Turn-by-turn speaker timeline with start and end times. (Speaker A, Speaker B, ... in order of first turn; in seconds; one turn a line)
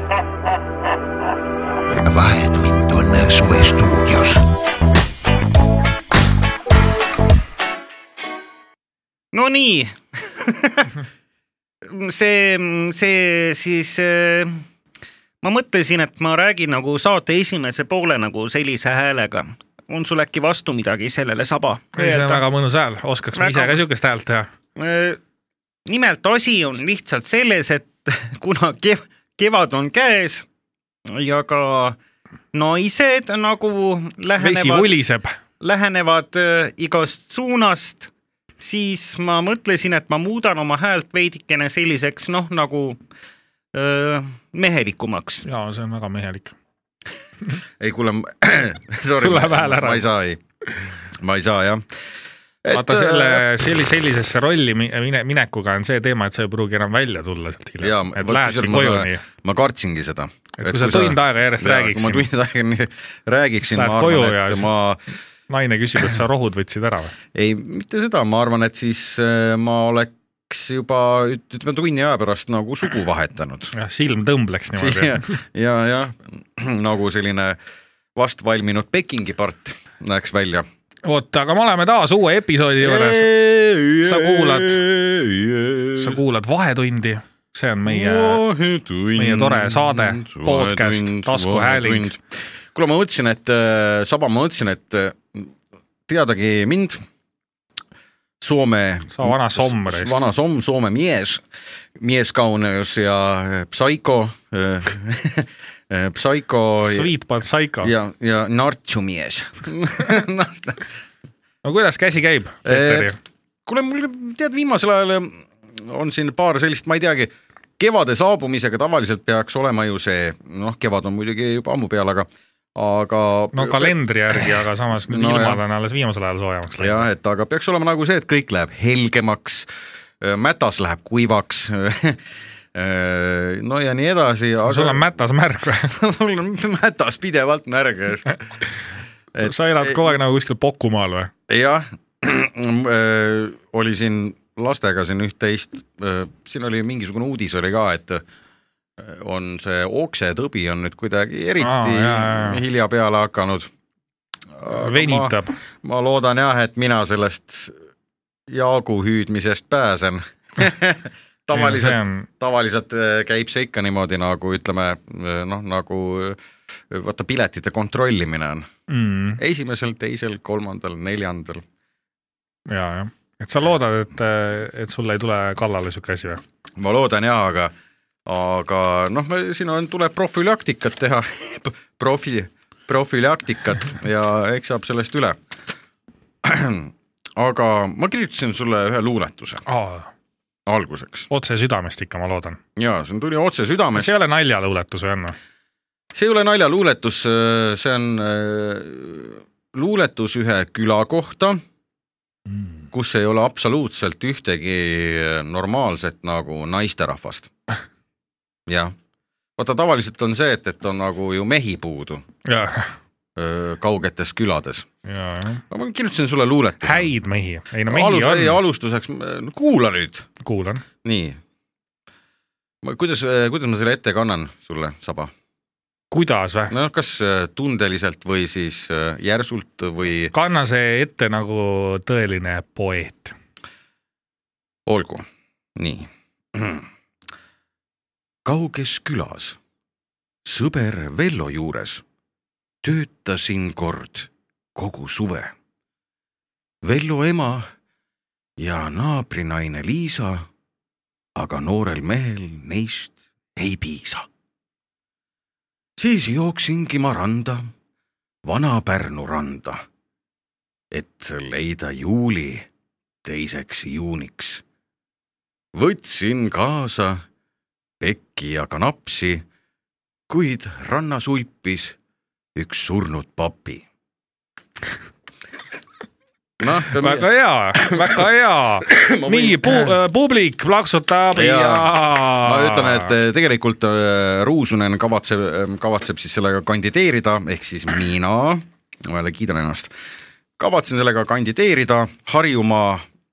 Speaker A: 2.0-4.4
Speaker B: 9.3-10.9
Speaker B: 11.8-14.6
Speaker B: 15.4-22.4
Speaker C: 21.9-24.5
Speaker B: 23.3-23.8
Speaker B: 24.8-25.2
Speaker B: 25.9-30.4
Speaker B: 31.1-32.0
Speaker B: 32.5-34.9
Speaker C: 34.4-35.3
Speaker B: 35.6-43.0
Speaker B: 43.7-45.4
Speaker C: 45.5-46.5
Speaker D: 47.8-50.4
Speaker C: 49.2-50.0
Speaker D: 51.2-51.9
Speaker D: 52.6-53.5
Speaker C: 52.7-59.2
Speaker D: 57.8-65.0
Speaker C: 60.6-62.3
Speaker C: 63.6-64.7
Speaker C: 65.5-67.2
Speaker D: 67.3-73.7
Speaker C: 73.7-75.3
Speaker D: 74.8-77.6
Speaker D: 78.2-80.7
Speaker C: 81.0-83.3
Speaker D: 82.8-86.2
Speaker C: 84.0-84.8
Speaker C: 86.0-88.4
Speaker D: 87.9-92.2
Speaker C: 89.2-92.1
Speaker D: 92.7-95.5
Speaker D: 96.1-97.0
Speaker D: 98.4-101.4
Speaker C: 99.1-100.2
Speaker D: 102.0-107.1
Speaker C: 106.8-107.9
Speaker D: 107.8-110.8
Speaker C: 111.6-113.2
Speaker D: 112.7-113.1
Speaker D: 113.7-123.9
Speaker C: 123.5-127.1
Speaker D: 125.1-125.6
Speaker D: 126.8-129.7
Speaker D: 130.2-132.2
Speaker D: 132.7-135.1
Speaker C: 134.7-135.9
Speaker D: 135.9-138.4
Speaker D: 139.3-140.2
Speaker C: 139.4-141.3
Speaker D: 141.5-148.2
Speaker D: 149.0-153.7
Speaker C: 151.6-152.6
Speaker D: 154.6-157.8
Speaker C: 154.7-155.6
Speaker D: 158.5-166.4
Speaker C: 161.5-162.3
Speaker D: 166.9-168.7
Speaker C: 168.9-169.4
Speaker D: 169.4-171.7
Speaker C: 172.7-176.4
Speaker D: 176.8-177.7
Speaker D: 178.2-185.4
Speaker D: 186.4-189.6
Speaker C: 189.7-190.1
Speaker D: 190.7-191.3
Speaker C: 191.3-192.6
Speaker D: 192.8-194.1
Speaker C: 193.9-195.4
Speaker D: 196.1-201.6
Speaker D: 202.9-207.5
Speaker D: 208.7-208.9
Speaker D: 209.6-212.2
Speaker C: 212.5-212.9
Speaker D: 213.4-214.9
Speaker C: 215.1-215.6
Speaker D: 215.7-217.1
Speaker C: 216.8-218.6
Speaker D: 217.9-220.3
Speaker C: 220.4-220.8
Speaker D: 221.0-221.4
Speaker D: 222.8-225.3
Speaker C: 226.1-226.7
Speaker D: 226.7-230.3
Speaker C: 230.3-233.3
Speaker D: 234.9-236.9
Speaker D: 238.4-239.6
Speaker D: 240.4-242.0
Speaker D: 242.8-245.5
Speaker D: 246.8-247.7
Speaker D: 248.6-250.5
Speaker D: 251.3-254.3
Speaker D: 256.0-257.7
Speaker D: 258.4-259.8
Speaker D: 260.9-262.7
Speaker D: 263.2-264.6
Speaker D: 265.8-267.2
Speaker D: 268.0-269.4
Speaker D: 270.3-271.9
Speaker D: 272.6-273.8
Speaker D: 276.6-278.2
Speaker C: 276.9-283.1
Speaker D: 278.8-279.9
Speaker D: 281.3-289.9
Speaker D: 290.6-293.0